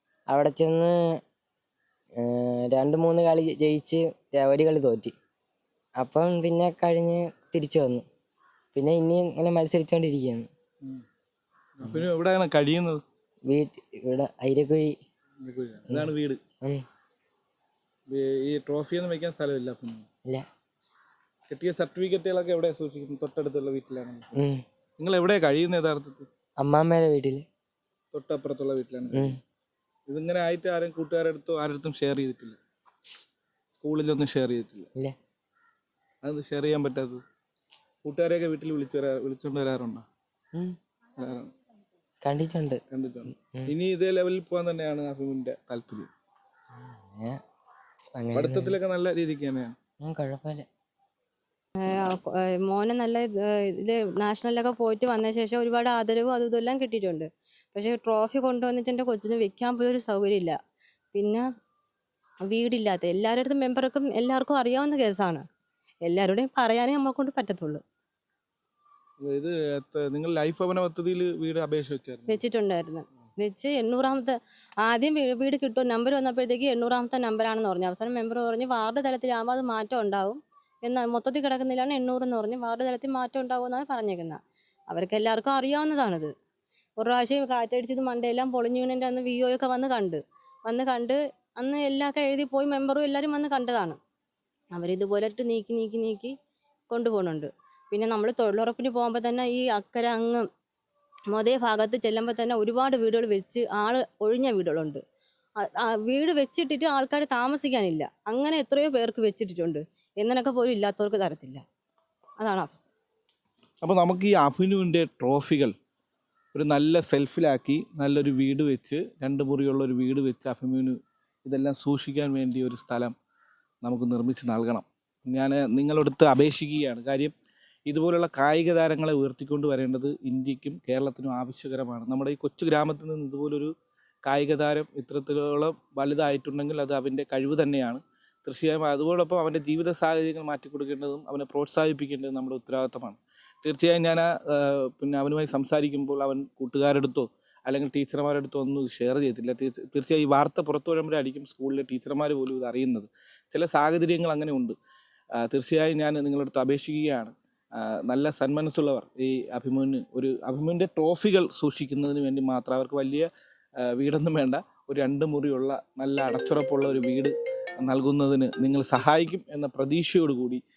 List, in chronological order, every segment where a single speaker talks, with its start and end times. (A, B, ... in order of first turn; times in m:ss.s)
0:00.3-0:01.0 A
0:02.2-0:05.1 A
0:06.0-0:08.0 A
0:08.7-0:10.5 A
0:11.8-0:13.0 B
0:13.5-0:15.0 A
0:15.4-0:16.4 B
0:18.1-0:20.1 B
0:21.4-0:24.3 B
0:24.3-0:24.6 A
0:25.0-0:26.3 B
0:26.6-0:27.4 A
0:28.1-0:29.4 B
0:29.1-0:29.4 A
0:30.1-0:32.6 B
0:33.7-0:34.9 B
0:36.2-0:37.2 B
0:38.0-0:40.0 B
0:41.2-0:41.5 B
0:42.2-0:42.8 A
0:42.9-0:46.1 B
0:46.8-0:47.4 A
0:48.2-0:48.8 A
0:48.3-0:49.8 B
0:50.0-0:50.7 A
0:51.8-1:00.6 C
1:01.1-1:01.4 C
1:02.5-1:05.4 C
1:06.0-1:07.8 C
1:09.2-1:12.4 B
1:12.3-1:24.4 C
1:24.9-1:26.3 C
1:27.0-1:34.0 C
1:34.7-1:36.3 C
1:36.9-1:40.4 C
1:41.3-1:45.0 C
1:45.6-1:51.6 C
1:52.4-1:52.9 C
1:53.8-1:55.7 B
1:56.5-2:03.1 B
2:03.8-2:07.3 B
2:07.9-2:13.7 B
2:14.2-2:34.8 B
2:35.4-2:43.3 B
2:43.8-2:50.6 B